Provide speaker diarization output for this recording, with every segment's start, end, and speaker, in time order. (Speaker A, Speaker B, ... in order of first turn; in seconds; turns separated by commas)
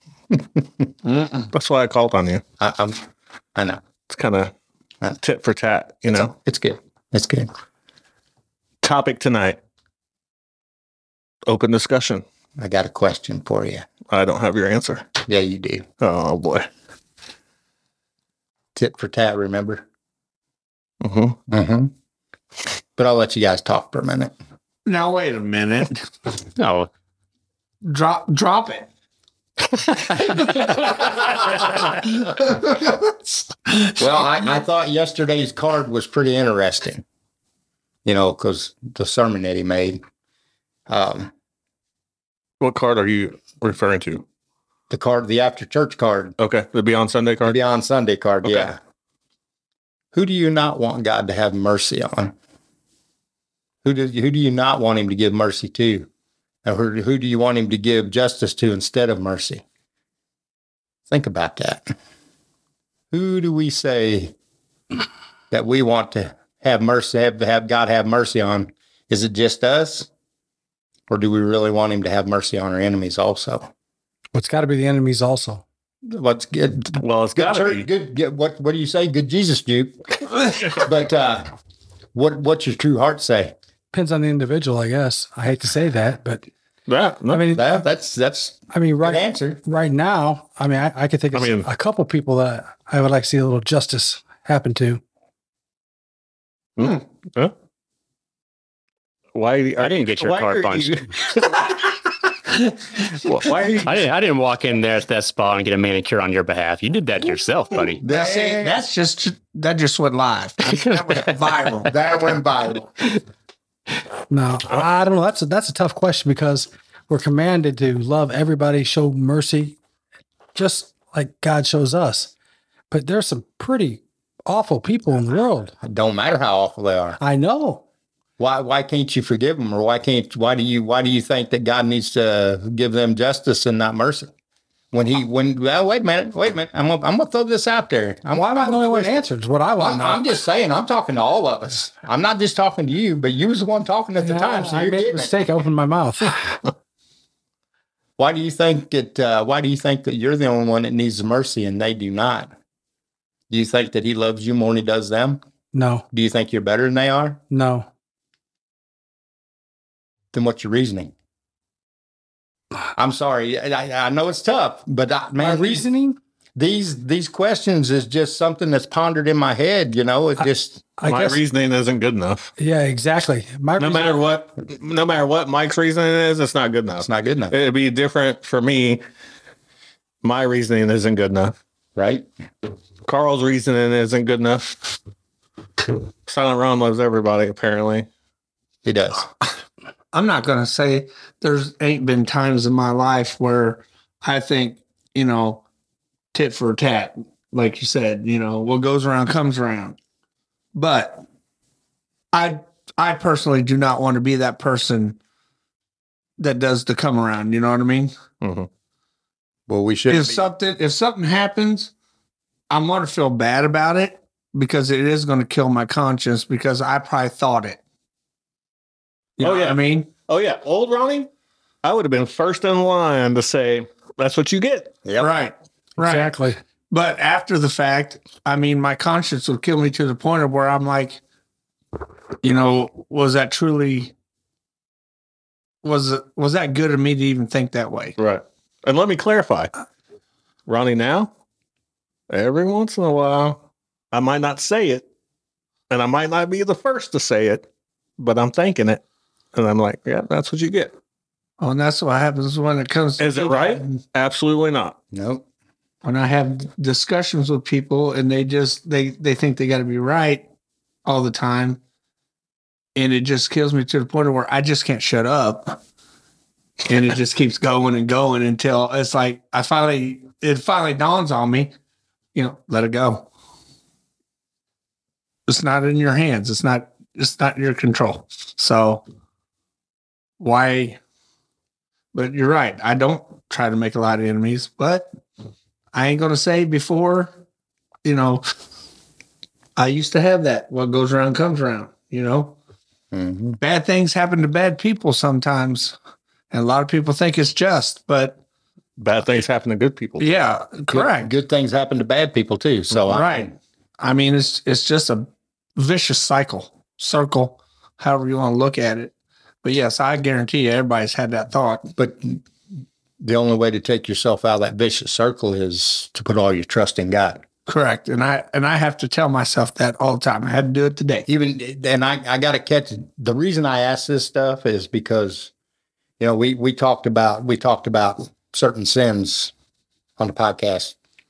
Speaker A: 0.3-0.9, Speaker B: 1.1-1.5, Speaker C: 1.5-2.4, Speaker A: 2.6-3.8, Speaker C: 4.1-4.5, Speaker C: 5.2-6.3, Speaker A: 6.1-7.5, Speaker C: 8.8-9.6, Speaker C: 11.5-12.2, Speaker A: 12.6-13.9, Speaker C: 14.1-15.1, Speaker A: 15.3-15.9, Speaker C: 16.0-16.7, Speaker A: 18.8-19.9, Speaker C: 21.0-21.4, Speaker A: 21.5-21.9, Speaker A: 23.0-24.3, Speaker B: 24.9-26.1, Speaker D: 26.6-26.9, Speaker B: 27.8-28.9, Speaker D: 29.7-30.5, Speaker B: 30.2-31.0, Speaker B: 32.0-33.1, Speaker B: 33.7-33.9, Speaker A: 34.0-37.0, Speaker A: 38.0-40.0, Speaker A: 40.9-41.3, Speaker C: 42.6-44.2, Speaker A: 44.9-46.4, Speaker C: 46.4-47.6, Speaker A: 47.5-48.8, Speaker C: 48.4-48.8, Speaker A: 50.1-52.4, Speaker A: 53.8-56.1, Speaker A: 56.6-59.6, Speaker A: 61.1-61.9, Speaker A: 63.1-64.3, Speaker A: 65.5-70.1, Speaker A: 71.1-73.7, Speaker E: 74.3-75.6, Speaker A: 76.1-81.5, Speaker C: 77.0-77.9, Speaker A: 82.1-83.5, Speaker E: 83.9-86.5, Speaker C: 86.9-87.5, Speaker E: 87.3-87.6, Speaker A: 87.5-89.6, Speaker E: 88.7-95.0, Speaker C: 91.3-91.7, Speaker C: 96.8-97.5, Speaker C: 99.3-101.7, Speaker D: 99.8-101.0, Speaker C: 103.2-104.0, Speaker D: 103.8-108.0, Speaker A: 108.0-108.8, Speaker B: 108.1-111.9, Speaker D: 110.7-111.3, Speaker A: 111.8-112.9, Speaker E: 114.3-119.8, Speaker E: 120.5-122.3, Speaker E: 122.9-125.7, Speaker A: 125.8-127.2, Speaker E: 127.2-127.8, Speaker A: 128.4-134.3, Speaker A: 134.9-139.2, Speaker E: 138.3-140.3, Speaker A: 139.8-145.3, Speaker E: 144.2-146.6, Speaker A: 148.2-152.5, Speaker A: 153.5-155.4, Speaker E: 155.7-156.0, Speaker A: 156.1-157.4, Speaker E: 157.5-157.9, Speaker A: 160.3-161.1, Speaker A: 163.0-165.8, Speaker E: 165.4-166.2, Speaker A: 166.6-170.9, Speaker E: 171.0-171.4, Speaker C: 171.0-172.5, Speaker E: 172.6-174.2, Speaker C: 173.8-179.0, Speaker A: 177.0-177.6, Speaker C: 180.2-181.6, Speaker A: 182.0-182.3, Speaker C: 183.1-185.0, Speaker C: 186.3-188.1, Speaker A: 188.8-189.3, Speaker B: 190.1-195.6, Speaker B: 196.3-200.0, Speaker B: 200.7-201.2, Speaker B: 202.3-205.2, Speaker B: 206.4-208.2, Speaker C: 208.4-208.7, Speaker A: 209.7-210.5, Speaker B: 210.1-211.9, Speaker B: 212.7-217.8, Speaker B: 219.4-220.1, Speaker C: 219.4-221.3, Speaker C: 221.8-225.0, Speaker A: 225.1-225.3, Speaker B: 225.2-226.3, Speaker E: 226.0-226.6, Speaker B: 226.9-231.2, Speaker B: 232.4-234.1, Speaker B: 235.8-238.2, Speaker C: 238.2-239.7, Speaker C: 240.7-241.3, Speaker C: 242.3-243.6, Speaker C: 244.1-245.1, Speaker C: 245.9-247.7, Speaker C: 248.2-249.0, Speaker C: 249.5-250.9, Speaker B: 251.6-254.0, Speaker C: 253.2-255.0, Speaker A: 255.1-255.4, Speaker B: 256.0-260.5, Speaker B: 261.1-261.8, Speaker B: 262.9-265.8, Speaker B: 266.9-271.7, Speaker B: 272.4-273.3, Speaker B: 275.5-279.0, Speaker B: 280.4-281.0, Speaker B: 282.1-285.1, Speaker B: 285.9-287.4, Speaker B: 288.0-288.4, Speaker B: 289.8-292.6, Speaker A: 293.1-293.6, Speaker B: 293.6-296.0, Speaker B: 296.5-298.4, Speaker C: 299.0-300.3, Speaker B: 300.2-301.3, Speaker A: 300.9-303.5, Speaker B: 303.1-311.9, Speaker A: 312.0-312.4, Speaker A: 313.2-317.4, Speaker B: 317.7-321.3, Speaker A: 321.3-325.5, Speaker A: 326.2-329.5, Speaker A: 330.2-330.9